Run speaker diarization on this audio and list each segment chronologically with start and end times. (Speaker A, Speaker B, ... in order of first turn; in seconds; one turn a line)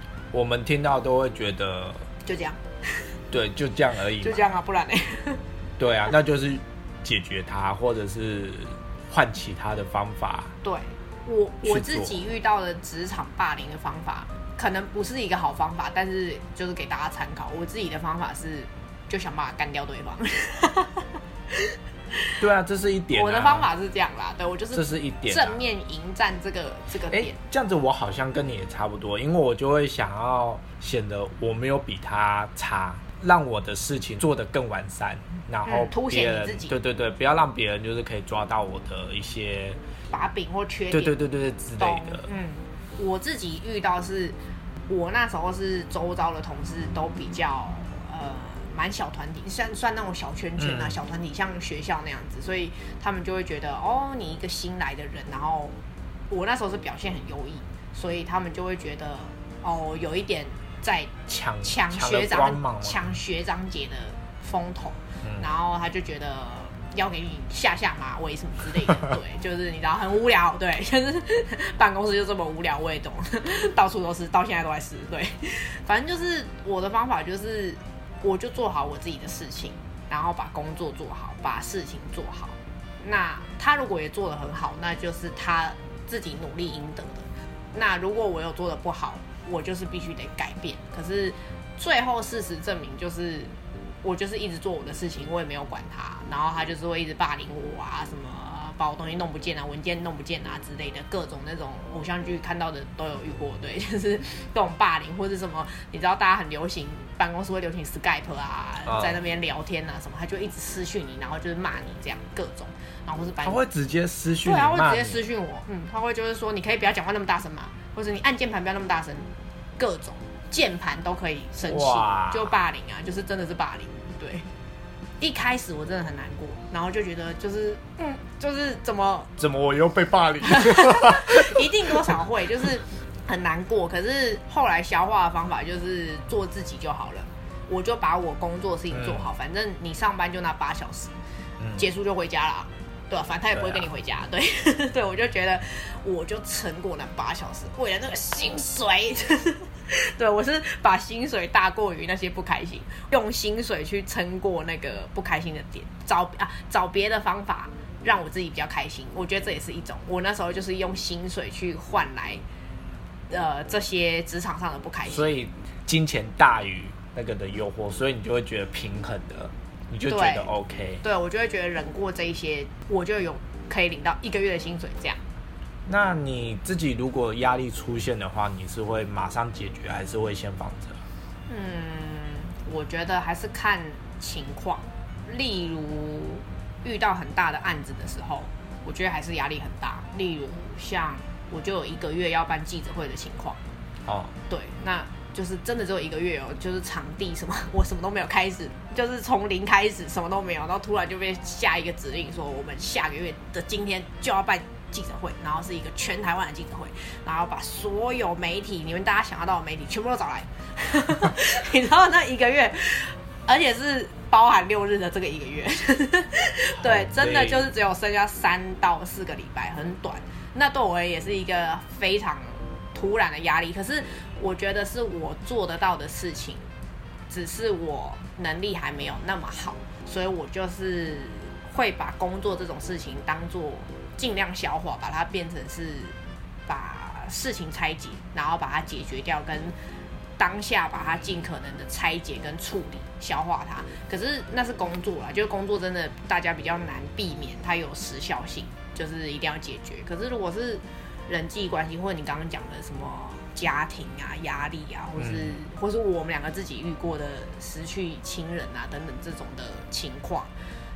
Speaker A: 0.3-2.1
Speaker B: 2.2-2.6
Speaker A: 3.3-4.4
Speaker B: 4.2-5.4
Speaker A: 5.8-10.5
Speaker B: 10.6-22.3
Speaker A: 11.6-12.2
Speaker A: 22.4-23.7
Speaker B: 23.1-27.4
Speaker A: 24.7-25.6
Speaker A: 27.1-39.8
Speaker B: 35.6-36.8
Speaker B: 40.1-41.1
Speaker A: 40.9-42.2
Speaker B: 41.8-44.4
Speaker B: 44.9-55.7
Speaker A: 50.6-51.0
Speaker B: 56.3-93.5
Speaker A: 61.3-63.0
Speaker B: 94.0-113.6
Speaker A: 108.8-109.2
Speaker A: 113.4-115.2
Speaker B: 114.4-124.5
Speaker A: 121.7-122.5
Speaker B: 125.2-129.3
Speaker A: 129.4-132.2
Speaker B: 130.4-141.1
Speaker A: 138.9-139.2
Speaker A: 141.6-141.8
Speaker B: 141.8-162.4
Speaker A: 143.5-143.8
Speaker B: 163.3-165.3
Speaker A: 165.1-171.0
Speaker B: 170.1-175.2
Speaker A: 175.8-181.0
Speaker B: 181.5-193.6
Speaker A: 194.1-194.3
Speaker B: 194.5-226.7
Speaker A: 216.8-217.7
Speaker B: 227.3-236.2
Speaker B: 236.7-239.7
Speaker B: 240.4-260.5
Speaker A: 255.2-255.6